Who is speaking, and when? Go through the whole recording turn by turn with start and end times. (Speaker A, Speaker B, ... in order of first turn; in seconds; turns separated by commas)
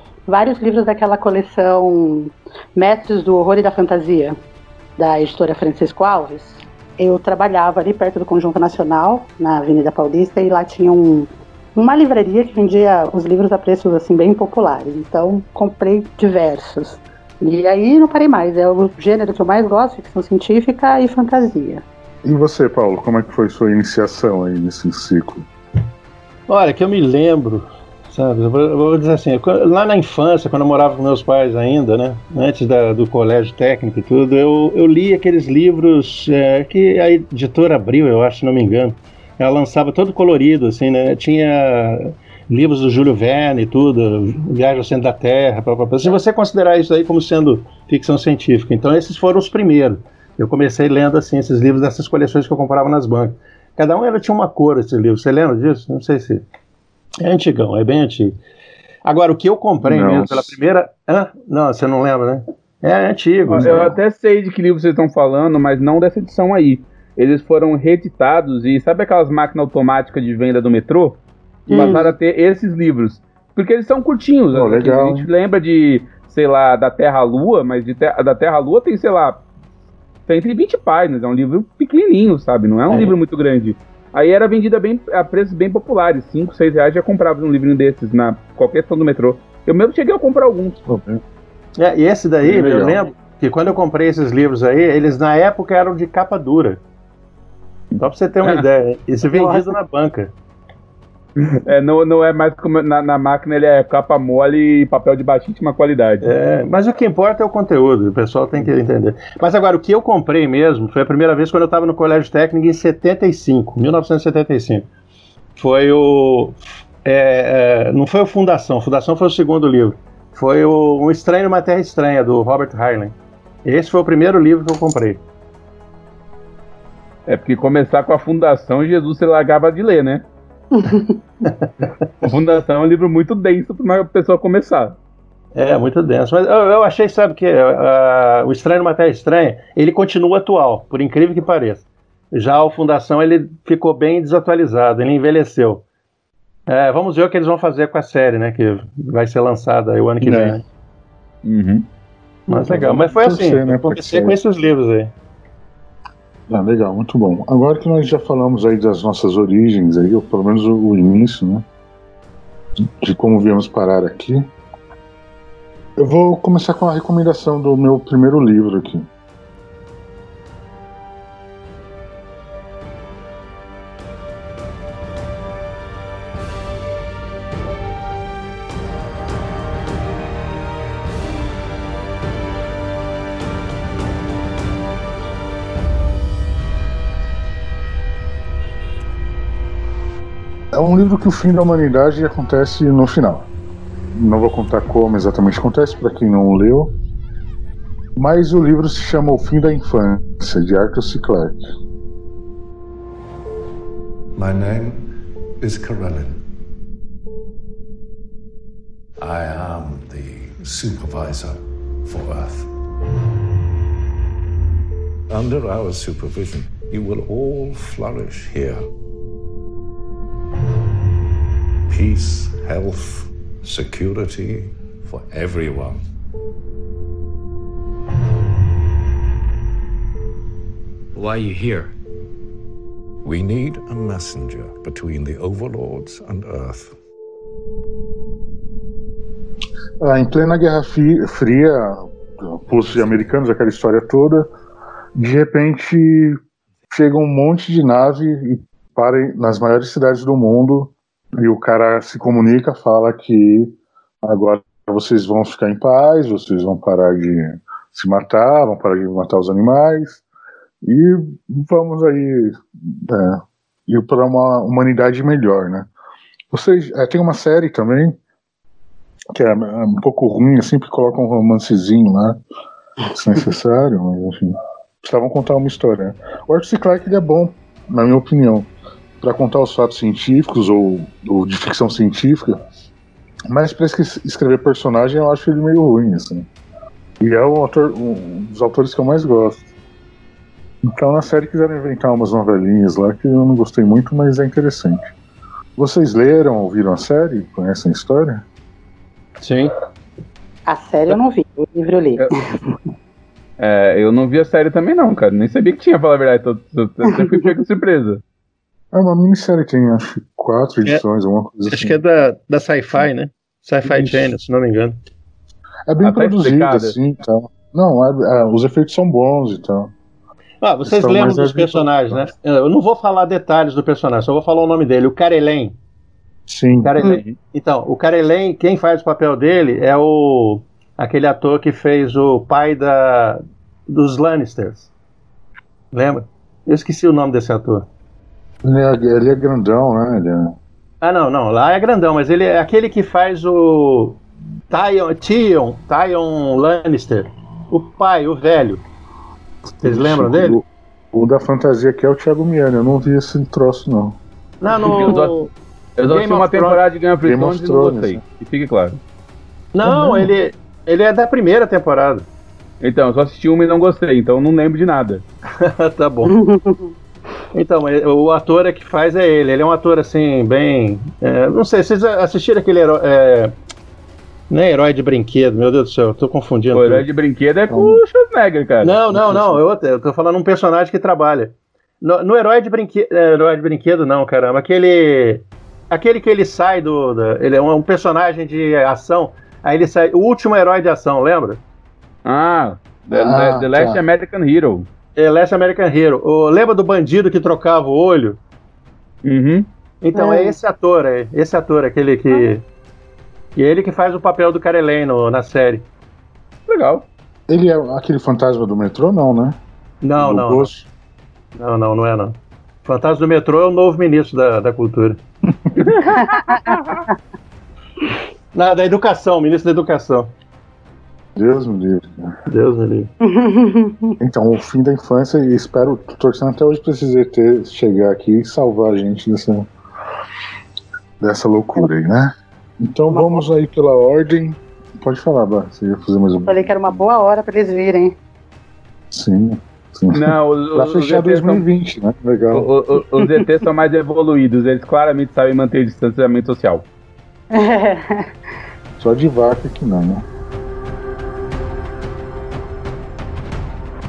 Speaker A: 0.3-4.3, Speaker A: 5.0-21.8, Speaker B: 22.2-25.5, Speaker C: 26.5-56.4, Speaker C: 57.2-58.4, Speaker C: 59.0-63.8, Speaker B: 59.8-60.5, Speaker B: 63.5-64.0, Speaker D: 63.5-79.4, Speaker C: 71.7-72.0, Speaker A: 71.7-72.1, Speaker B: 74.5-75.3, Speaker D: 80.3-90.8, Speaker C: 82.9-83.1, Speaker B: 90.8-91.2, Speaker C: 91.8-96.8, Speaker B: 92.4-93.0, Speaker C: 98.0-100.3, Speaker A: 99.2-99.7, Speaker D: 101.6-106.3, Speaker C: 106.2-114.9, Speaker C: 115.6-123.1, Speaker C: 123.6-125.2, Speaker D: 127.3-130.2, Speaker A: 130.7-131.2, Speaker D: 132.2-134.9, Speaker C: 135.5-145.8, Speaker C: 146.7-150.6, Speaker B: 150.2-150.6, Speaker D: 151.4-151.8, Speaker C: 152.5-155.1, Speaker B: 152.5-154.4, Speaker B: 156.5-161.7, Speaker B: 162.8-164.5, Speaker B: 166.0-169.1, Speaker B: 190.7-193.5, Speaker B: 194.1-196.9, Speaker B: 198.2-201.6, Speaker E: 204.3-206.4, Speaker E: 209.2-212.7, Speaker E: 215.3-218.9, Speaker E: 221.9-226.1, Speaker E: 231.2-231.9, Speaker E: 233.2-237.0, Speaker B: 240.0-244.5, Speaker B: 245.1-246.4, Speaker B: 246.9-260.2, Speaker B: 260.8-265.9, Speaker B: 266.5-268.2, Speaker B: 269.3-272.4, Speaker B: 273.1-278.7, Speaker B: 279.2-282.6, Speaker B: 283.5-286.5, Speaker B: 287.2-289.7, Speaker B: 290.8-295.1, Speaker B: 295.8-298.4, Speaker C: 299.4-299.7, Speaker A: 300.7-302.7, Speaker D: 303.6-308.2, Speaker A: 307.1-307.4, Speaker B: 308.9-312.0, Speaker C: 311.7-314.9, Speaker B: 313.9-314.3, Speaker B: 315.9-319.9, Speaker D: 316.0-316.9, Speaker C: 320.6-325.7, Speaker B: 320.8-322.2, Speaker B: 326.5-326.9, Speaker C: 326.8-334.9, Speaker D: 327.1-327.4, Speaker C: 335.9-337.9, Speaker B: 338.6-340.6, Speaker C: 341.0-344.2, Speaker C: 344.7-348.8, Speaker B: 349.8-354.2, Speaker C: 349.8-350.6, Speaker C: 354.6-355.5, Speaker D: 355.0-355.4, Speaker D: 356.0-359.0, Speaker C: 356.1-356.8, Speaker B: 357.2-358.2, Speaker C: 359.7-362.2, Speaker B: 359.8-360.3, Speaker D: 362.8-365.2, Speaker C: 365.6-366.3, Speaker A: 366.3-366.9, Speaker C: 367.5-373.5, Speaker C: 374.5-377.0, Speaker D: 376.7-378.9, Speaker C: 378.8-391.6, Speaker B: 379.1-379.6, Speaker D: 392.2-394.9, Speaker B: 393.1-394.0, Speaker C: 395.1-398.4, Speaker D: 399.2-399.7, Speaker C: 400.0-402.6, Speaker A: 400.1-400.6, Speaker C: 403.6-405.9, Speaker D: 406.7-407.1, Speaker B: 407.5-409.6, Speaker C: 410.0-410.7, Speaker B: 410.2-410.9, Speaker C: 411.6-415.2, Speaker D: 415.8-417.0, Speaker A: 416.1-417.1, Speaker C: 418.5-420.3, Speaker B: 421.3-422.3, Speaker C: 422.5-423.1, Speaker A: 423.2-424.1, Speaker B: 424.2-429.7, Speaker B: 431.2-437.0, Speaker A: 433.1-433.4, Speaker A: 436.4-438.1, Speaker B: 439.1-442.7, Speaker D: 440.1-441.6, Speaker D: 442.5-446.9, Speaker A: 447.5-448.3, Speaker B: 449.0-450.2